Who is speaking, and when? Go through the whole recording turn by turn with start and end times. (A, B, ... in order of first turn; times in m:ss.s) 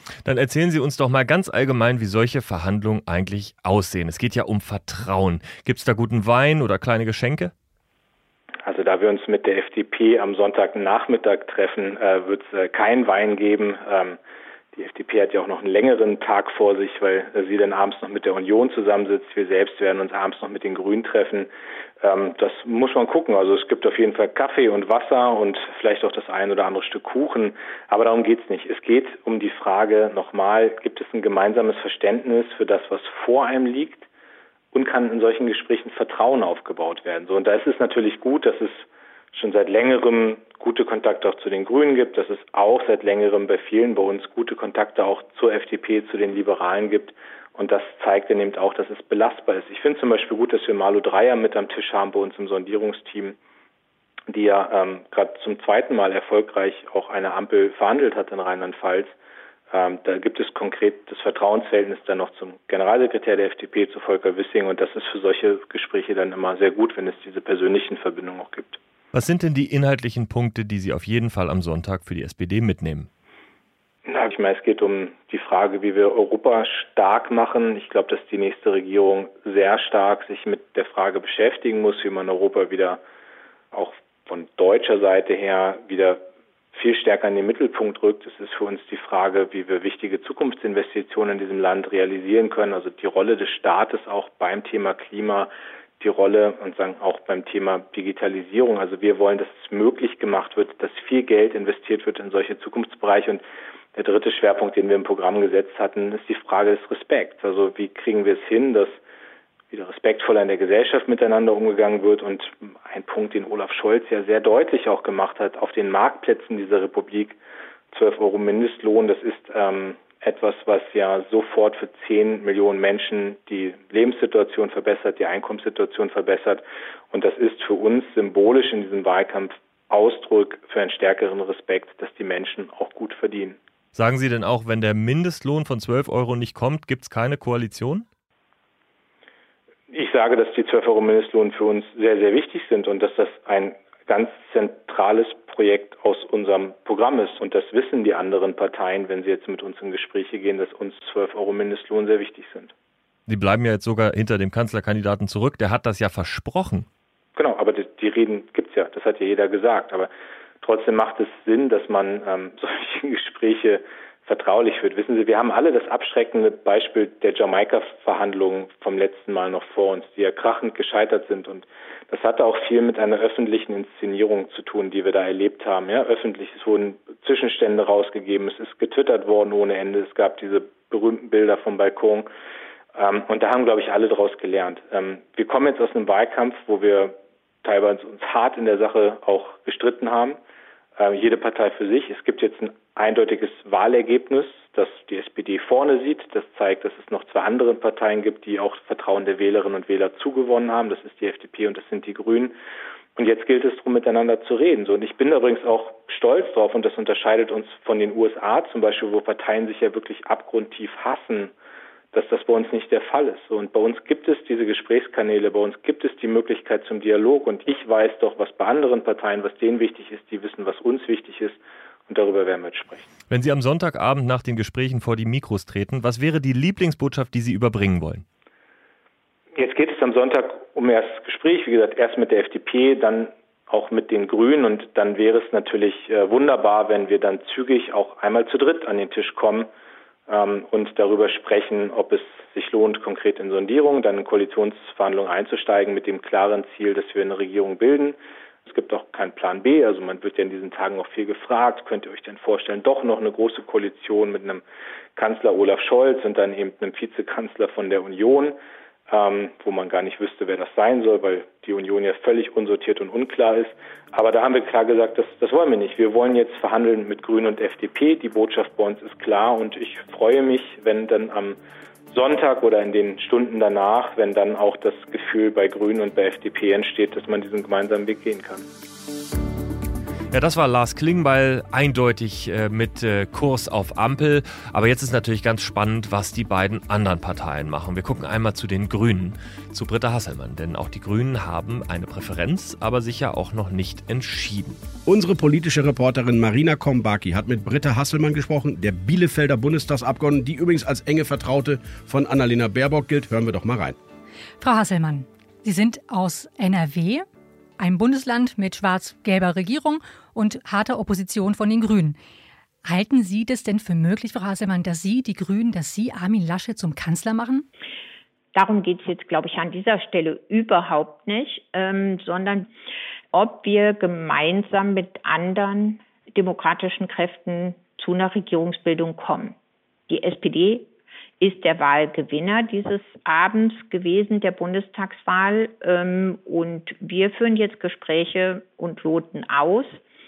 0:00.2-0:07.5 A
0:08.6-0:14.2 B
0:14.7-0:21.5 B
0:22.0-0:34.0 B
0:34.7-0:53.4 B
0:54.3-0:59.1 B
0:59.7-1:08.8 B
1:09.1-1:13.1 A
1:14.0-1:23.0 B
1:23.7-1:26.2 B
1:26.7-1:43.4 B
1:43.9-1:49.0 B
1:49.7-1:57.4 B
1:57.9-2:13.6 B
2:13.9-2:18.0 A
2:19.9-2:32.7 B
2:33.3-2:36.9 A
2:37.4-2:40.1 B
2:40.6-3:02.3 B
3:02.9-3:10.4 B
3:11.0-3:22.5 B
3:23.2-3:31.5 B
3:32.1-3:43.1 B
3:43.3-3:48.2 A
3:49.5-3:59.7 B
4:00.3-4:14.6 B
4:15.2-4:18.6 B
4:19.1-4:31.6 B
4:32.1-4:38.6 B
4:40.3-4:54.8 A
4:55.1-5:04.0 C
5:04.6-5:07.2 D
5:07.8-5:12.2 D
5:12.8-5:17.6 D
5:18.5-5:22.7 E
5:23.3-5:29.5 E
5:30.1-5:30.9 E
5:31.4-5:40.0 E